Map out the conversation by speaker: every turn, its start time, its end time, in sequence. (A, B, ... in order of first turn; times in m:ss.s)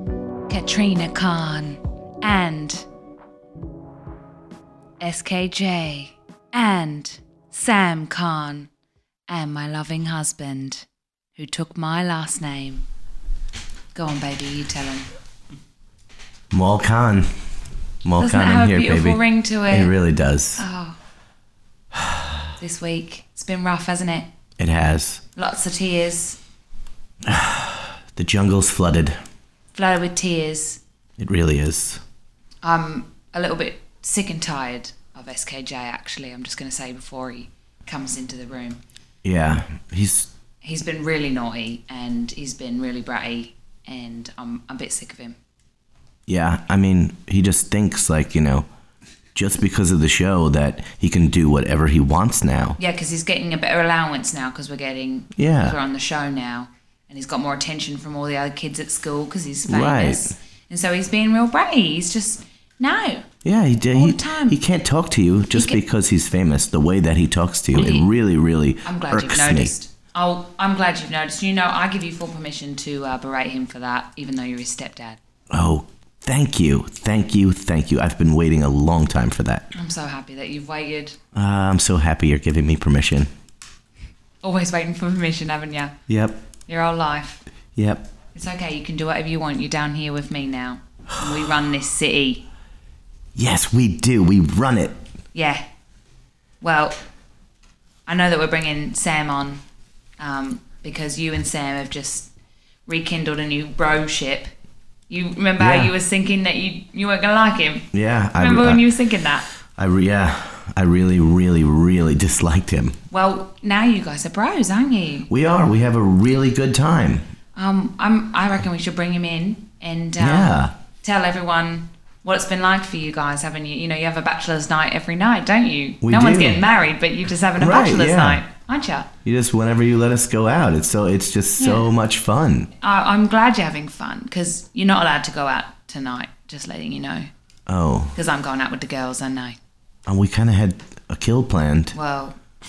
0:00.5-0:02.8 A
0:05.0-0:08.7 A
0:09.3-0:12.8 A
0:13.9-0:15.1 A
0:16.5-0:17.3 B
0:18.0-0:20.6 B
0:18.2-0:19.9 A
0:20.6-0:21.0 A
0:22.6-0:24.3 A
0:24.6-0:25.2 B
0:25.4-0:26.4 A
0:27.2-0:29.2 B
0:29.7-0:30.8 A
0:31.2-0:32.0 B
0:32.6-0:38.8 A
0:39.2-0:40.3 B
0:40.6-0:45.4 A
0:46.3-0:48.6 B
0:49.3-0:52.8 B
0:52.8-1:03.2 A
0:55.4-0:55.8 B
0:59.7-1:00.4 B
1:03.4-1:09.7 B
1:03.9-1:04.6 A
1:05.5-1:05.8 A
1:07.7-1:08.1 A
1:08.8-1:15.2 A
1:15.5-1:19.7 B
1:19.7-1:21.2 A
1:21.3-1:23.3 B
1:24.4-1:25.9 A
1:26.1-1:26.4 B
1:26.7-1:27.4 A
1:27.8-1:28.1 B
1:28.3-1:32.4 A
1:33.3-1:35.0 B
1:35.3-1:35.6 A
1:36.6-1:36.9 A
1:38.1-1:39.6 A
1:40.2-1:42.3 A
1:42.9-1:44.5 A
1:45.1-1:49.4 A
1:45.6-1:45.9 B
1:47.9-1:48.8 B
1:49.8-1:53.0 B
1:53.1-1:55.3 A
1:55.3-1:57.2 B
1:57.6-2:09.1 A
2:00.2-2:00.7 B
2:06.0-2:06.6 B
2:07.6-2:08.4 B
2:09.2-2:12.7 B
2:11.6-2:11.9 A
2:12.8-2:17.3 A
2:17.7-2:18.2 B
2:18.1-2:19.6 A
2:20.1-2:21.9 B
2:21.9-2:22.4 A